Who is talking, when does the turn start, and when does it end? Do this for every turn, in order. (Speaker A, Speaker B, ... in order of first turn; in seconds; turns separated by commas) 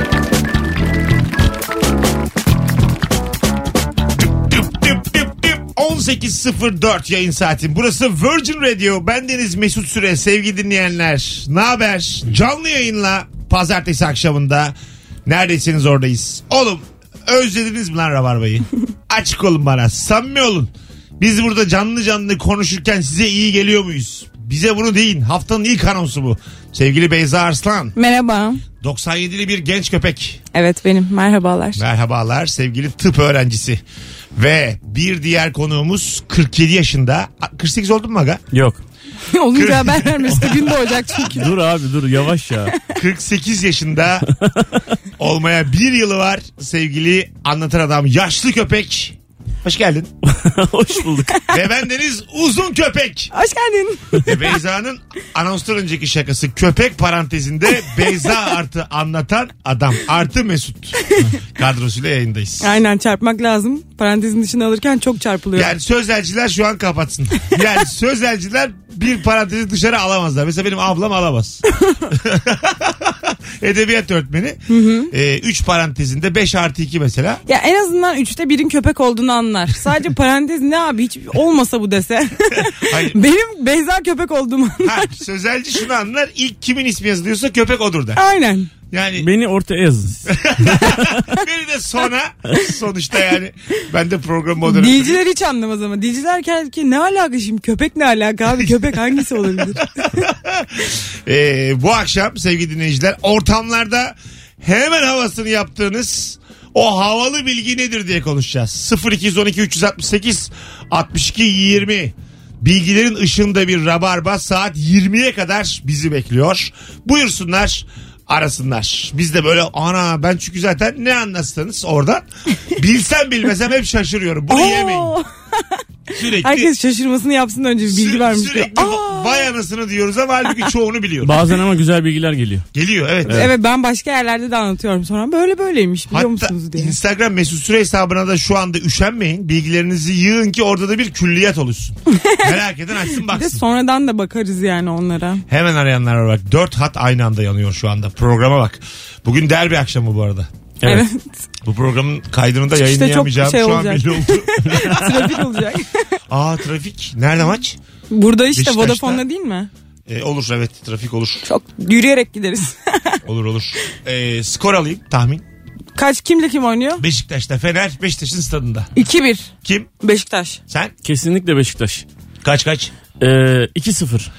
Speaker A: 4.3-14.8, Speaker A: 15.3-27.9, Speaker B: 27.9-28.6, Speaker A: 28.8-30.4, Speaker B: 30.5-31.8, Speaker A: 31.8-33.8, Speaker A: 34.4-38.5, Speaker C: 38.5-38.8, Speaker B: 39.3-41.5, Speaker A: 39.5-41.2, Speaker C: 41.4-42.7, Speaker A: 42.9-44.3, Speaker A: 45.2-50.1, Speaker C: 50.2-51.4, Speaker A: 51.5-53.3, Speaker B: 53.3-54.2, Speaker A: 54.2-61.0, Speaker A: 61.5-62.7, Speaker B: 62.6-65.7, Speaker A: 65.5-77.4, Speaker B: 74.7-75.1, Speaker B: 77.5-85.1, Speaker A: 82.7-83.2, Speaker A: 84.8-88.2, Speaker B: 88.2-88.7, Speaker A: 88.9-89.3, Speaker C: 89.2-90.3, Speaker A: 90.3-95.2, Speaker B: 94.7-100.0, Speaker A: 99.5-125.2, Speaker B: 124.5-125.8, Speaker A: 126.1-126.7, Speaker B: 126.4-129.5, Speaker A: 127.9-131.4, Speaker C: 131.2-132.7, Speaker A: 132.7-133.5, Speaker B: 133.3-136.9, Speaker A: 136.1-143.6, Speaker B: 143.3-145.4, Speaker A: 145.5-150.5, Speaker B: 150.8-151.4, Speaker A: 151.6-155.4, Speaker B: 152.8-156.0, Speaker A: 156.3-157.8, Speaker B: 158.1-159.7, Speaker A: 158.5-159.2, Speaker A: 160.1-161.4, Speaker B: 161.5-163.2, Speaker A: 163.3-165.4, Speaker B: 166.0-167.0, Speaker A: 167.0-168.9, Speaker B: 169.0-169.5, Speaker A: 169.6-169.9, Speaker B: 170.0-170.6, Speaker C: 171.0-172.1, Speaker A: 172.4-172.9, Speaker C: 173.2-174.3